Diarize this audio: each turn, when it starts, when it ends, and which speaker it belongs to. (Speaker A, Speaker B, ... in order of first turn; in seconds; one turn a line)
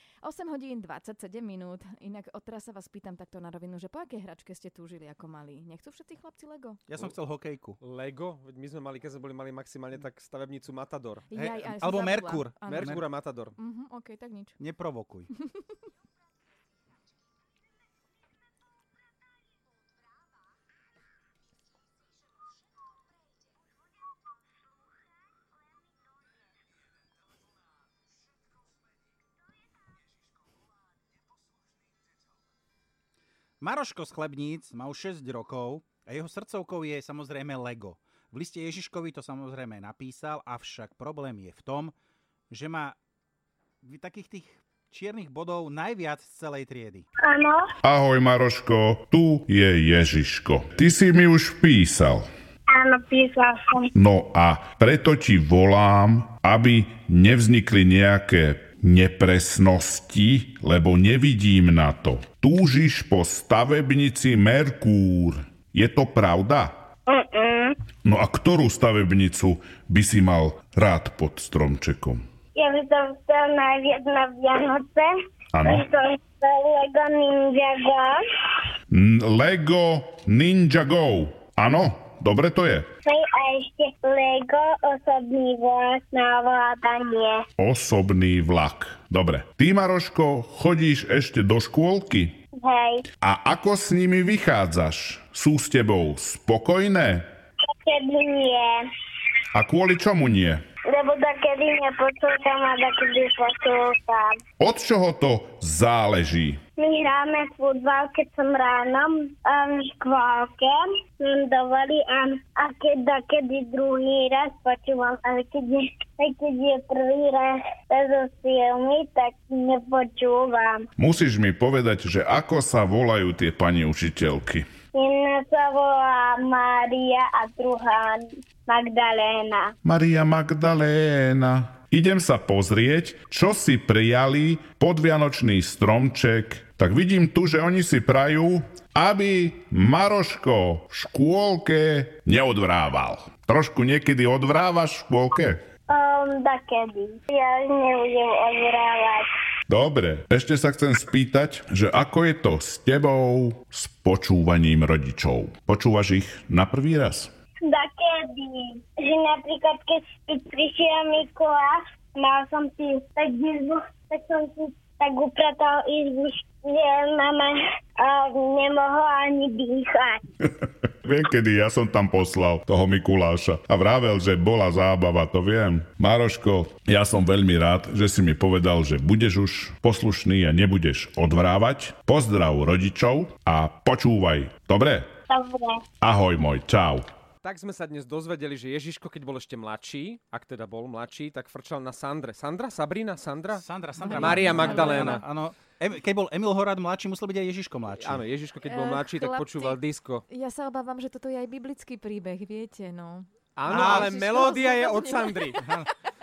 Speaker A: 0.2-6.8
Speaker B: 6.9-7.8
Speaker C: 7.8-11.2
Speaker A: 11.3-13.0
Speaker B: 11.3-13.0
Speaker C: 12.7-13.5
Speaker A: 13.6-14.6
Speaker B: 14.6-15.3
Speaker B: 33.6-41.9
Speaker B: 42.5-43.0
Speaker B: 43.8-47.1
Speaker D: 47.2-47.6
Speaker E: 47.8-52.3
Speaker D: 52.7-53.9
Speaker E: 54.0-66.7
Speaker D: 67.1-67.8
Speaker E: 68.0-72.2
Speaker D: 72.5-75.1
Speaker E: 75.5-75.8
Speaker D: 75.6-78.2
Speaker E: 78.9-82.9
Speaker D: 83.0-87.5
Speaker E: 87.6-92.3
Speaker D: 92.6-93.1
Speaker E: 93.2-97.3
Speaker D: 97.8-98.8
Speaker E: 99.5-100.6
Speaker D: 100.9-104.4
Speaker E: 104.6-106.6
Speaker D: 106.8-120.8
Speaker E: 121.0-124.7
Speaker D: 124.9-129.7
Speaker E: 129.8-145.6
Speaker D: 145.9-149.2
Speaker E: 149.7-157.3
Speaker D: 157.7-170.2
Speaker E: 171.0-185.1
Speaker D: 185.3-185.8
Speaker E: 186.0-187.1
Speaker C: 187.4-195.2
Speaker B: 193.5-198.2
Speaker A: 194.0-195.2
Speaker C: 198.0-200.2
Speaker A: 198.7-205.6
Speaker C: 203.6-205.7
Speaker B: 203.7-204.2
Speaker B: 205.6-205.9